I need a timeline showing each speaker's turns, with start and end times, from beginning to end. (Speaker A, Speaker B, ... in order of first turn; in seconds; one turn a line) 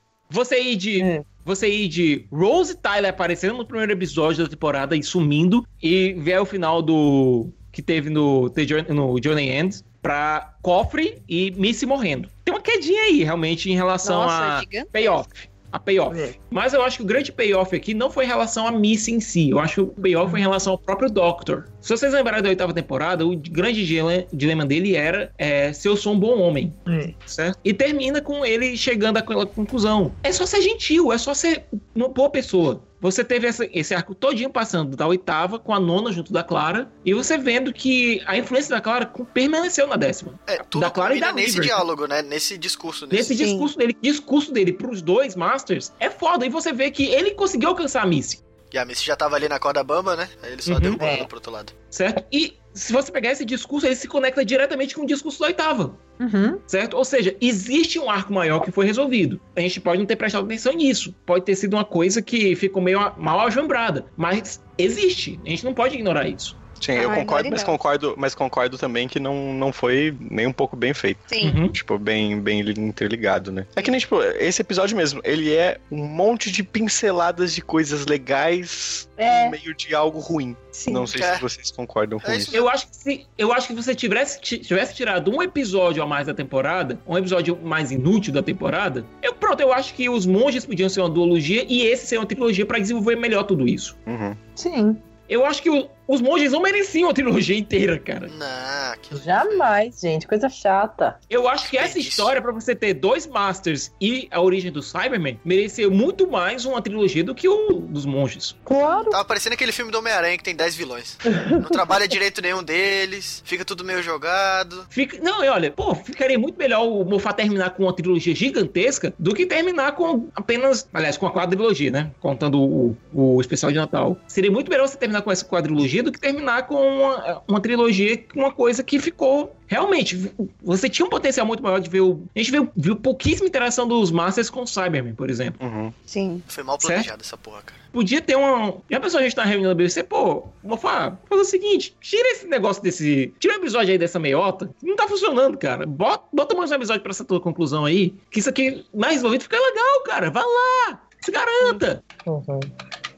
Speaker A: 0.3-41.8
Speaker B: 1.0-1.2
Speaker C: 14.0-15.2
Speaker B: 26.9-27.1
Speaker D: 40.5-43.4
Speaker A: 43.1-48.4
Speaker C: 43.3-43.7
Speaker D: 48.7-51.7
Speaker A: 50.6-51.0
Speaker B: 51.0-51.3
Speaker A: 51.9-56.0
Speaker B: 56.2-56.6
Speaker A: 56.7-66.5
Speaker E: 66.8-82.5
Speaker C: 67.0-67.8
Speaker C: 71.3-71.6
Speaker A: 71.4-71.7
Speaker B: 79.2-79.5
Speaker C: 80.8-81.1
Speaker D: 81.1-81.4
Speaker D: 82.2-82.7
Speaker A: 82.5-93.9
Speaker E: 94.1-94.4
Speaker B: 94.6-95.0
Speaker A: 95.3-98.3
Speaker D: 98.3-99.7
Speaker B: 99.1-101.2
Speaker A: 101.3-108.6
Speaker D: 101.6-102.3
Speaker B: 108.7-109.2
Speaker D: 108.9-114.8
Speaker B: 111.3-111.7
Speaker A: 114.9-135.6
Speaker E: 135.6-135.9
Speaker C: 136.1-136.4
Speaker D: 136.5-137.8
Speaker A: 136.8-137.1
Speaker A: 137.9-152.0
Speaker B: 151.6-152.7